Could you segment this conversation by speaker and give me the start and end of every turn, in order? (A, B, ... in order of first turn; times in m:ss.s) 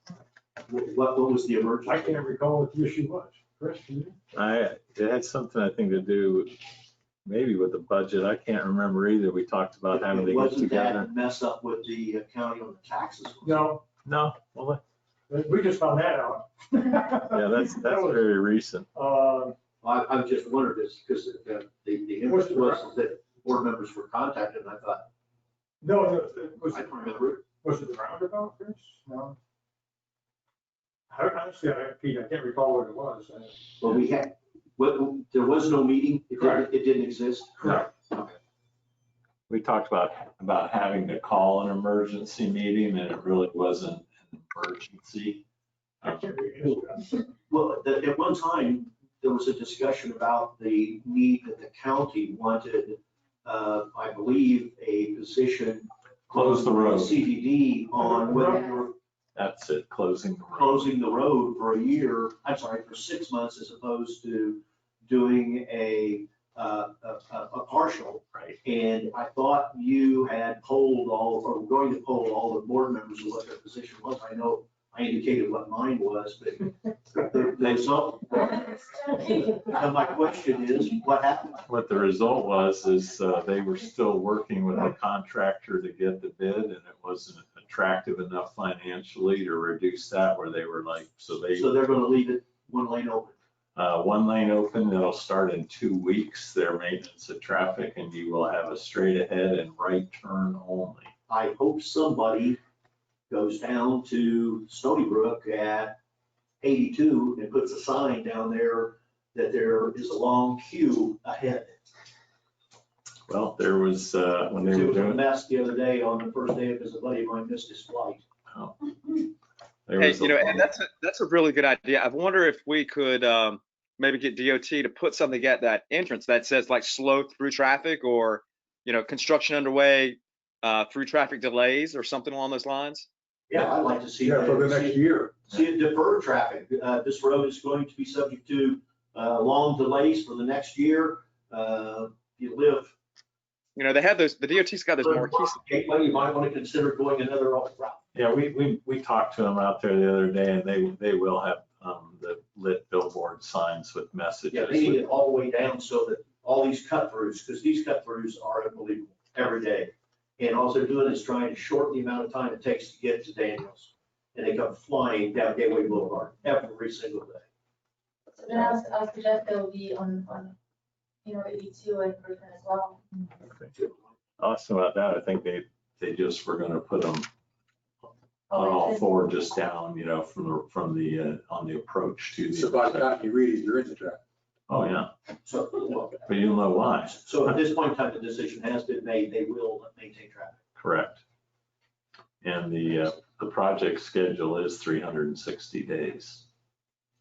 0:00.7-0:02.2 A
0:01.8-0:04.2 B
0:04.3-0:06.6 C
0:07.2-0:11.1 C
0:09.9-0:13.7 A
0:13.4-0:13.8 B
0:14.0-0:14.8 C
0:15.3-0:18.2 B
0:17.3-0:18.9 C
0:18.9-0:19.6 B
0:19.8-0:25.0 A
0:22.2-0:22.9 B
0:25.8-0:29.4 B
0:26.7-0:27.4 A
0:31.1-0:33.7 B
0:33.8-0:38.4 A
0:37.6-0:37.9 B
0:37.6-0:37.9 C
0:39.5-0:45.4 C
0:46.0-0:46.4 C
0:46.0-0:47.2 B
0:47.5-0:58.9 A
0:56.3-0:57.2 C
0:58.0-0:58.6 B
0:59.3-1:00.9 C
1:00.5-1:21.6 A
1:21.6-1:31.7 C
1:31.6-1:33.3 A
1:33.8-1:41.1 C
1:41.3-1:42.6 A
1:43.3-1:46.0 A
1:46.6-1:51.8 A
1:53.3-1:55.2 C
1:54.6-1:58.2 A
1:58.5-1:59.2 C
1:59.9-2:00.7 C
2:00.0-2:13.1 D
2:13.5-2:22.9 A
2:14.2-2:15.4 E
2:23.8-2:25.8 D
2:25.0-2:28.0 A
2:28.1-2:35.0 C
2:34.5-2:47.4 A
2:48.3-2:50.5 F
2:48.5-2:48.8 C
2:51.2-2:53.0 F
2:54.4-2:57.3 C
2:58.5-2:59.0 F
2:58.5-3:03.1 C
3:02.5-3:04.2 E
3:04.7-3:05.1 C
3:05.4-3:06.2 A
3:06.2-3:07.2 C
3:07.1-3:10.6 A
3:10.8-3:11.2 C
3:12.4-3:16.4 C